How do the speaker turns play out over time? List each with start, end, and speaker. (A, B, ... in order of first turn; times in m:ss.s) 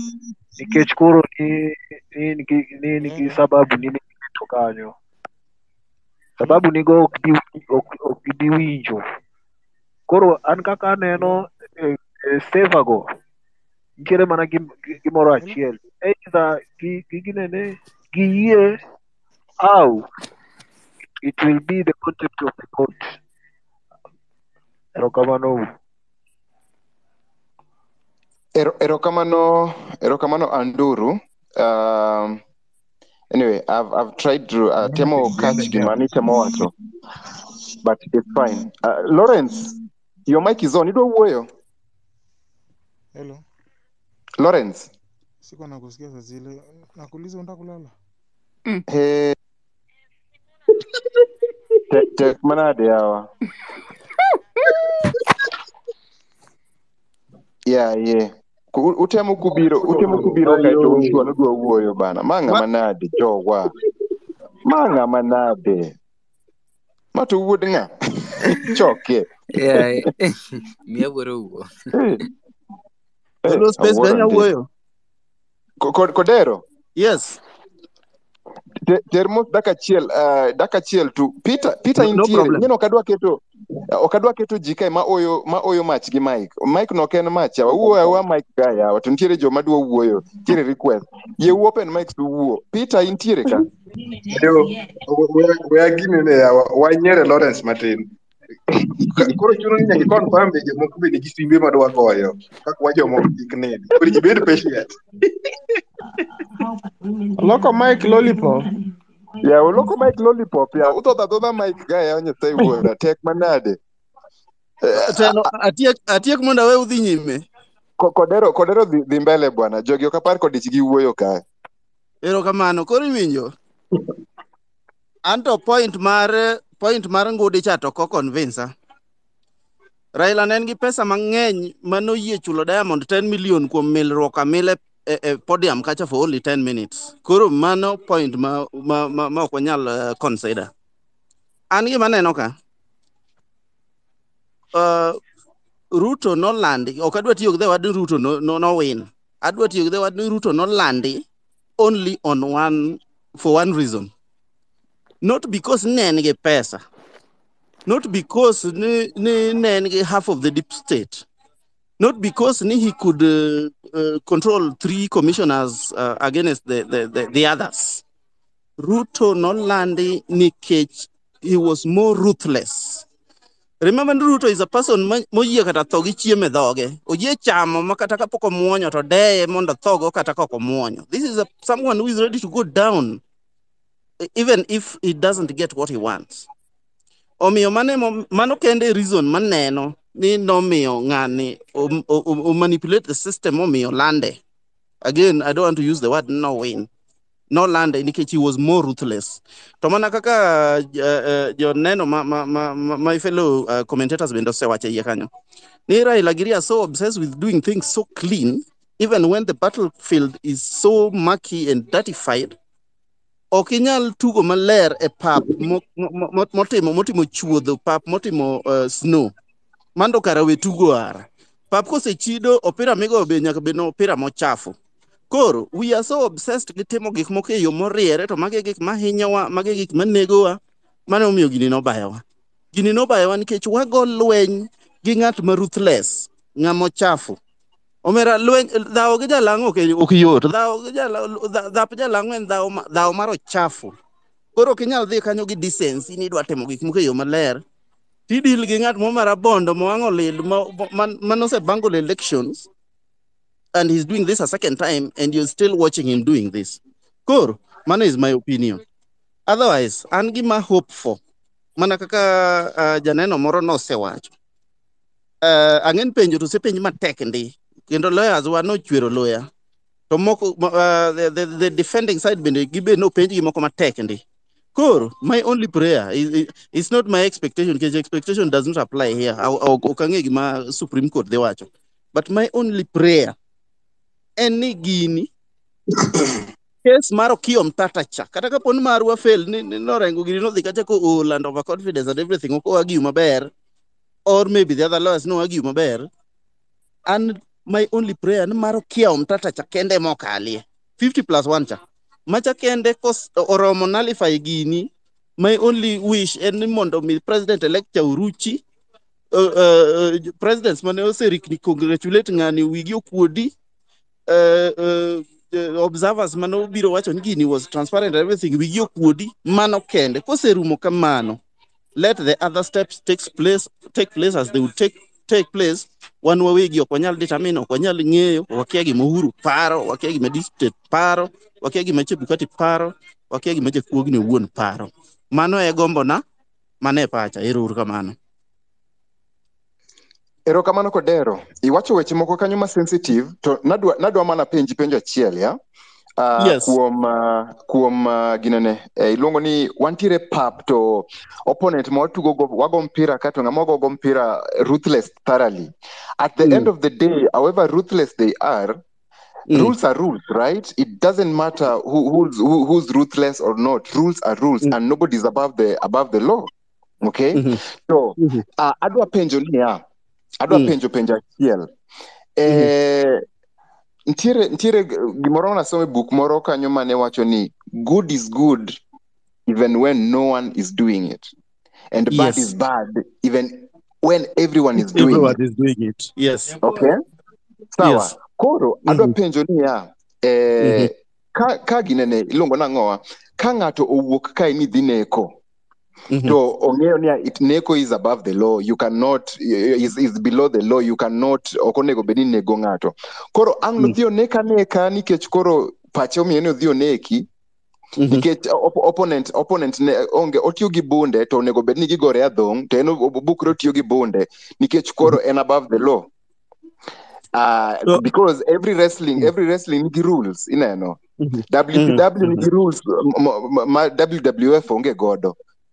0:00.6-0:04.9 A
0:03.0-0:03.4 B
0:06.4-0:09.0 A
0:10.1-0:13.0 A
0:14.0-0:18.8 A
0:19.6-0:20.0 A
0:21.2-0:23.1 A
0:25.0-0:25.6 A
0:28.5-0:32.4 C
0:33.3-0:36.7 C
0:35.2-0:35.8 D
0:37.8-0:39.7 C
0:40.3-0:41.5 C
0:43.1-0:43.4 B
0:44.4-0:44.9 C
0:45.4-0:47.9 B
0:48.9-0:49.4 C
0:51.9-0:53.3 C
0:57.6-1:03.7 C
0:59.8-1:01.3 D
1:04.6-1:05.9 C
1:07.1-1:09.9 C
1:09.5-1:11.7 E
1:11.9-1:12.2 C
1:13.4-1:14.5 C
1:13.4-1:14.7 F
1:15.8-1:16.6 C
1:17.0-1:17.4 F
1:18.8-1:33.6 C
1:22.0-1:22.6 F
1:34.3-1:38.1 D
1:39.0-1:45.0 D
1:47.4-1:48.7 D
1:49.4-1:53.8 C
1:54.8-1:55.4 C
1:54.9-1:57.4 F
1:58.0-2:01.4 C
2:02.2-2:03.5 F
2:05.2-2:08.7 F
2:10.1-2:20.7 F
2:21.7-2:22.6 F
2:24.7-2:25.2 F
2:25.9-2:31.2 F
2:31.8-2:34.1 F
2:35.2-2:36.8 F
2:37.8-2:41.2 F
2:42.0-2:48.0 F
2:48.8-2:53.0 F
2:53.8-3:03.2 F
3:04.2-3:06.5 F
3:07.4-3:14.4 F
3:15.0-3:16.9 F
3:17.5-3:25.3 F
3:25.9-3:32.6 F
3:33.5-3:39.3 F
3:39.9-3:44.8 F
3:45.3-3:57.4 F
3:58.0-4:03.9 F
4:04.5-4:07.6 F
4:08.3-4:12.7 F
4:13.7-4:18.8 F
4:19.5-4:21.2 F
4:21.8-4:24.3 F
4:25.4-4:29.5 F
4:30.1-4:34.2 F
4:34.7-4:43.4 F
4:44.4-4:45.3 F
4:46.8-4:53.5 F
4:54.3-4:56.1 F
4:57.1-5:08.6 F
5:09.3-5:13.5 F
5:14.3-5:21.4 F
5:21.9-5:36.2 F
5:36.8-5:38.2 F
5:40.4-5:45.6 C
5:46.2-5:58.8 C
5:46.4-5:46.8 F
5:56.4-5:56.7 F
5:59.5-6:06.5 C
6:07.0-6:09.8 C
6:07.3-6:07.6 F
6:10.4-6:11.7 C
6:12.4-6:13.2 C
6:12.5-6:12.7 F
6:14.1-6:18.8 C
6:19.5-6:21.3 C
6:21.9-6:25.4 C
6:22.1-6:22.5 F
6:24.8-6:26.7 F
6:26.6-6:27.0 C
6:27.8-6:35.4 C
6:27.8-6:28.1 F
6:28.9-6:29.1 F
6:30.6-6:30.9 F
6:36.1-6:36.4 F
6:36.2-6:47.3 C
6:48.0-6:48.2 F
6:48.1-6:56.1 C
6:57.3-7:05.3 C
7:01.2-7:02.5 F